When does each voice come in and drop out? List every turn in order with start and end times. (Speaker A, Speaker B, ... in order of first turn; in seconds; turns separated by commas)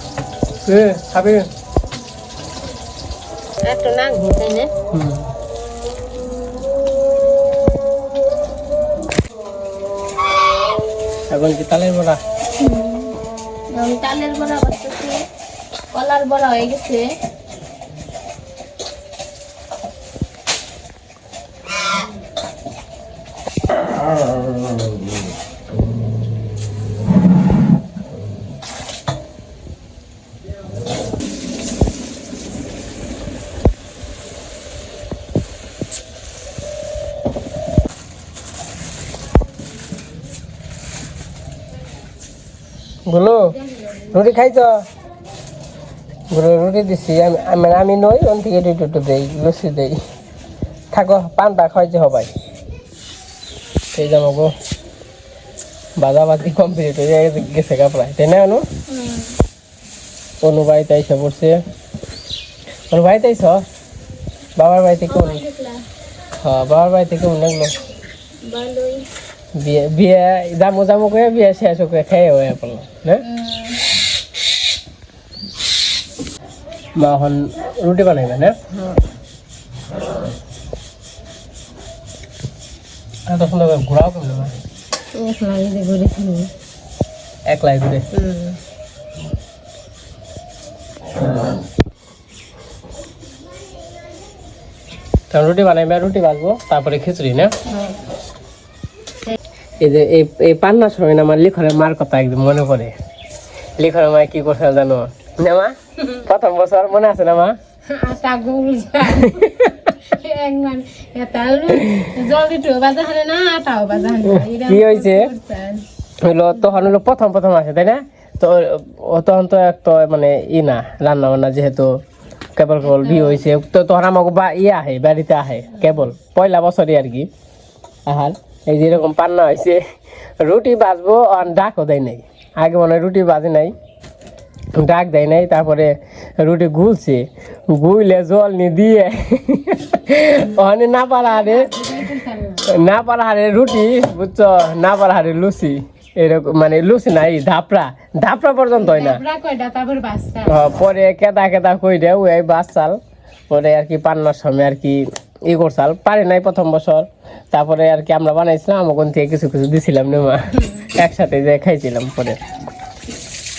Speaker A: 0.7-1.5, Speaker B: 3.6-4.7, Speaker A: 4.9-5.3, Speaker A: 11.3-12.2, Speaker C: 12.6-13.1, Speaker C: 13.8-15.2, Speaker C: 15.9-17.0, Speaker A: 43.1-43.5, Speaker B: 43.4-44.1, Speaker A: 44.1-44.8, Speaker A: 46.3-50.0, Speaker A: 50.9-52.3, Speaker A: 53.9-54.5, Speaker A: 56.0-58.6, Speaker C: 58.9-59.3, Speaker A: 60.4-61.6, Speaker A: 62.9-63.6, Speaker A: 64.6-65.4, Speaker C: 65.1-65.8, Speaker A: 66.4-67.7, Speaker C: 68.4-69.0, Speaker A: 69.5-73.2, Speaker C: 73.2-73.8, Speaker A: 77.0-78.5, Speaker B: 78.7-79.0, Speaker A: 83.3-84.5, Speaker B: 85.1-86.5, Speaker A: 87.5-88.0, Speaker B: 88.1-88.6, Speaker A: 95.3-97.5, Speaker B: 97.7-98.0, Speaker A: 99.8-103.0, Speaker A: 103.8-107.6, Speaker B: 107.9-115.8, Speaker A: 109.2-109.9, Speaker A: 111.8-112.0, Speaker A: 114.2-115.3, Speaker A: 116.2-122.0, Speaker A: 122.5-127.3, Speaker B: 122.8-123.4, Speaker A: 128.1-129.8, Speaker A: 130.4-133.7, Speaker A: 134.7-142.0, Speaker B: 141.3-142.7, Speaker A: 142.7-149.2, Speaker B: 148.8-150.6, Speaker A: 150.4-153.0, Speaker A: 153.5-162.4